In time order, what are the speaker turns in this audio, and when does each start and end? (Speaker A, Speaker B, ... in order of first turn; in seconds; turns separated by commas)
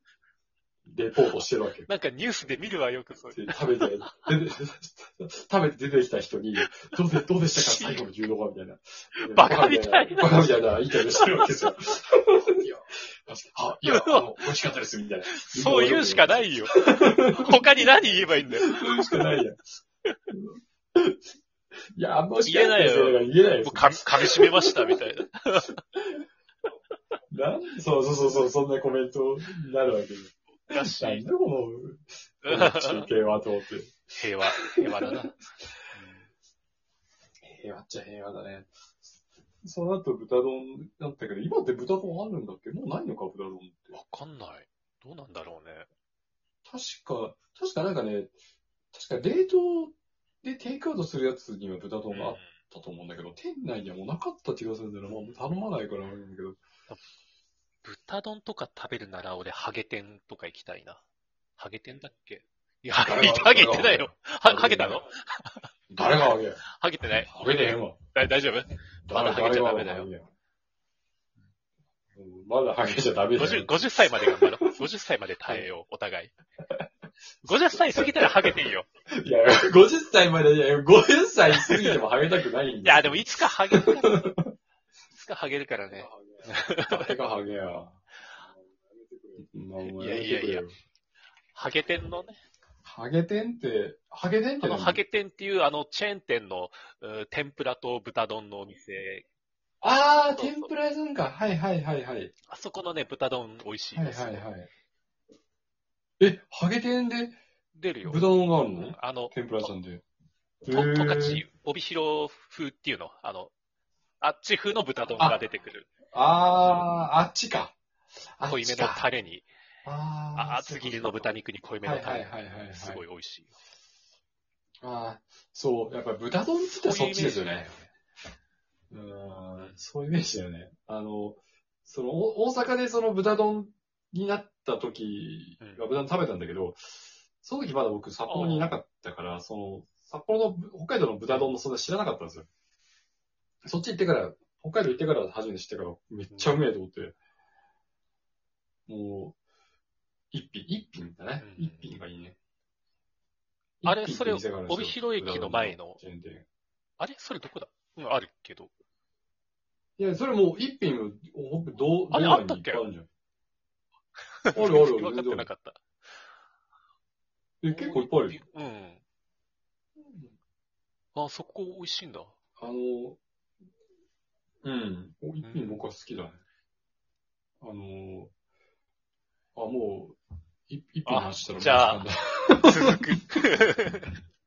Speaker A: 0.8-1.9, Speaker B: 1.9-4.3, Speaker A: 3.3-19.7, Speaker B: 7.5-8.1, Speaker B: 9.3-11.7, Speaker B: 13.9-14.5, Speaker B: 15.2-19.4, Speaker A: 20.3-21.2, Speaker A: 21.9-25.0, Speaker B: 22.4-25.8, Speaker A: 27.3-35.6, Speaker B: 30.7-31.2, Speaker B: 32.4-33.1, Speaker B: 34.1-35.4, Speaker B: 35.9-36.3, Speaker A: 37.4-44.0, Speaker B: 43.9-45.9, Speaker A: 46.6-48.4, Speaker A: 48.9-56.6, Speaker B: 52.1-52.5, Speaker B: 57.8-61.0, Speaker B: 61.6-70.1, Speaker A: 63.0-65.0, Speaker A: 65.9-66.6, Speaker A: 67.2-68.0, Speaker A: 69.0-70.3, Speaker A: 72.1-74.8, Speaker B: 73.3-76.3, Speaker A: 77.4-84.5, Speaker B: 77.4-78.8, Speaker B: 81.5-82.0, Speaker B: 82.8-84.3, Speaker B: 85.1-87.1, Speaker A: 85.9-90.8, Speaker B: 89.8-90.6, Speaker B: 91.5-92.4, Speaker A: 92.8-95.0, Speaker B: 94.6-99.2, Speaker A: 99.8-102.3, Speaker B: 100.3-100.7, Speaker B: 102.5-104.4, Speaker A: 103.9-104.7, Speaker A: 106.2-107.4, Speaker B: 107.7-108.3, Speaker A: 108.0-110.0, Speaker B: 108.8-109.7, Speaker A: 110.6-111.4, Speaker B: 110.7-113.5, Speaker B: 114.2-115.9, Speaker A: 116.1-117.8, Speaker B: 116.6-117.0, Speaker A: 118.3-119.1, Speaker B: 118.5-119.5, Speaker A: 119.8-123.0, Speaker B: 120.3-123.5, Speaker A: 124.8-127.7, Speaker B: 126.6-127.9, Speaker A: 128.9-142.5, Speaker B: 135.6-135.8, Speaker B: 138.3-138.8, Speaker B: 141.3-141.5, Speaker A: 143.6-147.1, Speaker B: 146.3-146.6, Speaker A: 148.9-149.3, Speaker A: 150.3-152.3, Speaker B: 151.4-151.9, Speaker A: 153.8-156.4, Speaker B: 153.8-156.0, Speaker B: 157.0-158.7, Speaker A: 160.0-163.1, Speaker B: 162.1-162.8, Speaker B: 164.4-165.8, Speaker A: 164.5-165.5, Speaker A: 167.6-168.4, Speaker B: 167.7-169.0, Speaker A: 170.0-170.3, Speaker B: 171.1-172.3, Speaker A: 172.6-173.2, Speaker A: 174.6-176.4, Speaker B: 175.4-175.8, Speaker A: 177.6-178.3, Speaker A: 179.5-183.0, Speaker B: 181.1-182.1, Speaker B: 182.6-184.1